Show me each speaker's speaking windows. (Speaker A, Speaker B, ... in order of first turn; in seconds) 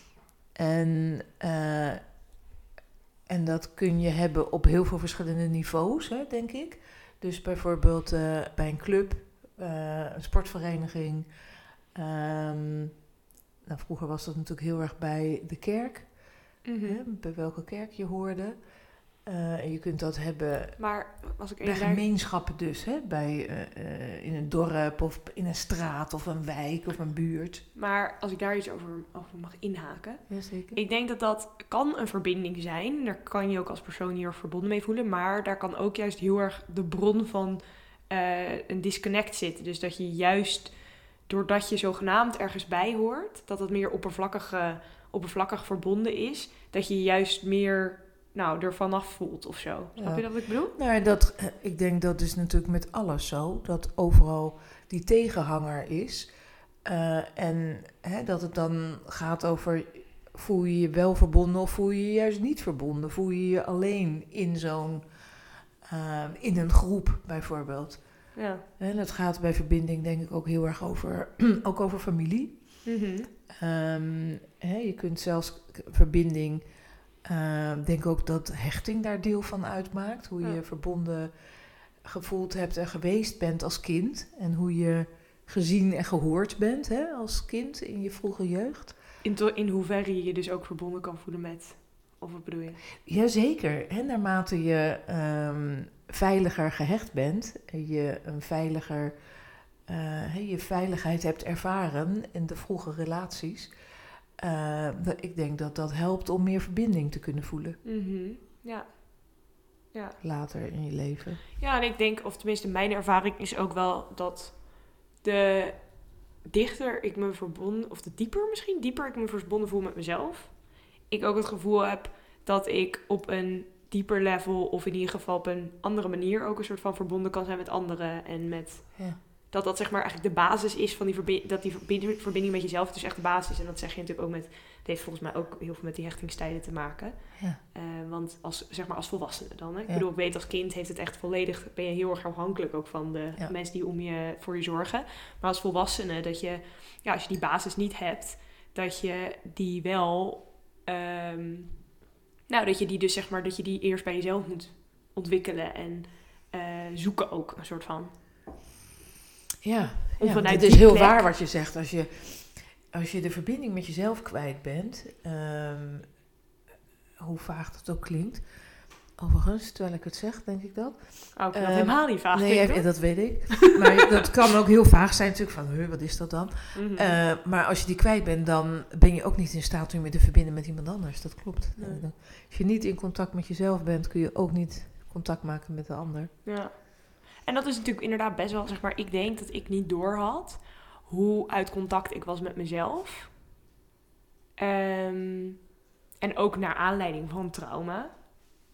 Speaker A: 0.6-2.1, 3.3-11.4, 11.9-13.1, 13.6-21.0, 21.6-27.6, 30.3-30.8, 50.0-73.0, 73.5-89.0, 93.0-99.2, 99.8-103.8, 104.4-107.8, 110.2-111.5, 159.6-166.1, 167.2-186.4
Speaker B: 16.6-17.0, 20.8-22.0, 27.8-50.8, 68.3-68.6, 72.8-73.3, 89.2-92.8, 107.8-110.2, 111.6-151.9, 152.5-158.2, 160.2-161.3, 171.3-173.7, 176.7-177.2, 181.8-182.0, 186.4-193.3, 194.6-198.2